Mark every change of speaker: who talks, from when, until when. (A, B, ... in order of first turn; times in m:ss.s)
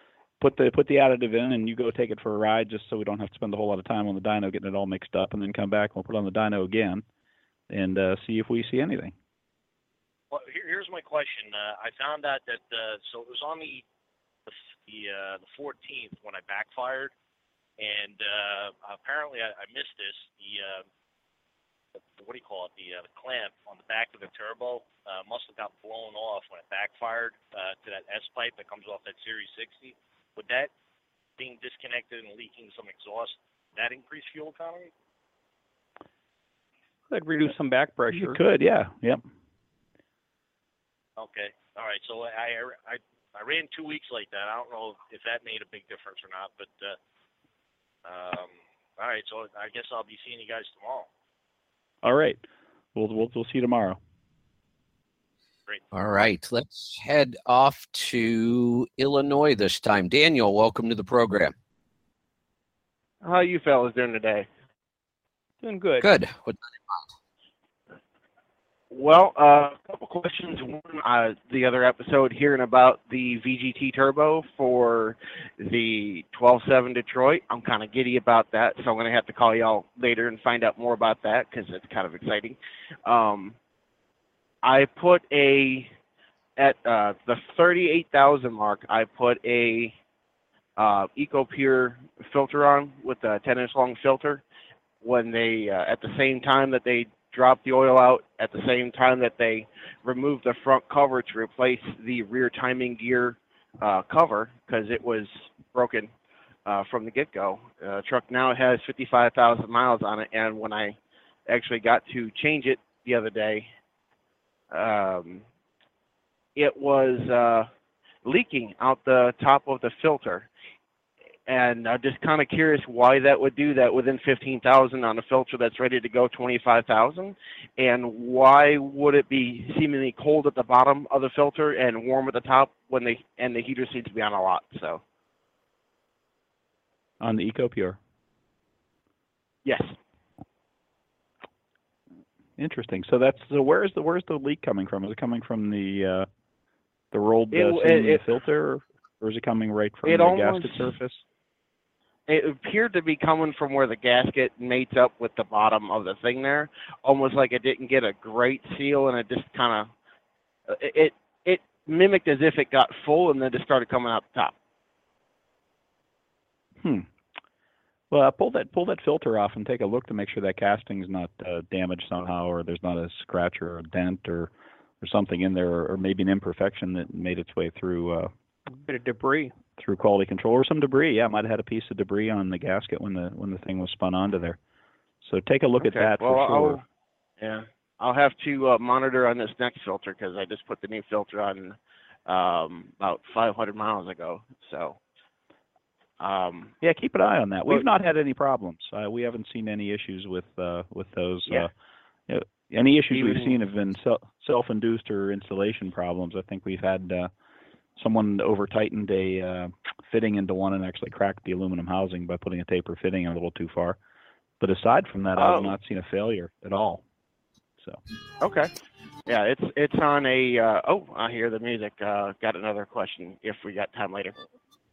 0:00.4-0:07.0 A
0:07.7-0:09.2 A
0:10.3-0:13.8 B
0:14.5-0:17.1 B
0:17.8-0:20.9 B
0:22.0-0:30.7 B
0:31.4-0:34.9 B
0:37.1-0:38.4 C
0:38.1-0:39.2 A
0:41.2-0:47.0 B
0:48.0-0:51.1 B
0:52.0-0:52.4 A
0:53.0-0:54.0 A
0:55.9-1:01.5 D
1:03.2-1:04.5 E
1:05.6-1:06.1 C
1:06.0-1:07.0 D
1:08.9-1:23.6 E
1:24.6-1:25.9 E
1:26.6-1:30.0 E
1:30.8-1:34.4 E
1:35.0-1:46.1 E
1:46.7-1:51.0 E
1:51.5-1:53.7 E
1:54.7-1:55.4 E
1:56.6-1:57.7 E
1:58.2-2:00.5 E
2:01.5-2:15.0 E
2:17.2-2:18.0 A
2:19.6-2:19.9 E
2:22.6-2:26.3 A
2:27.1-2:31.2 A
2:27.5-2:28.2 E
2:30.0-2:30.9 E
2:32.3-2:39.9 E
2:40.7-2:44.5 E
2:46.8-2:47.1 A
2:48.1-2:58.3 A
2:58.8-2:59.5 C
2:59.8-3:04.6 A
3:05.2-3:06.8 A
3:05.8-3:06.8 E
3:07.4-3:15.0 E
3:16.2-3:16.8 E
3:16.8-3:21.7 A
3:22.3-3:27.3 A
3:23.1-3:23.6 E
3:28.0-3:34.0 A
3:34.6-3:37.0 A
3:35.4-3:35.8 E
3:38.4-3:38.7 E
3:39.3-3:44.4 E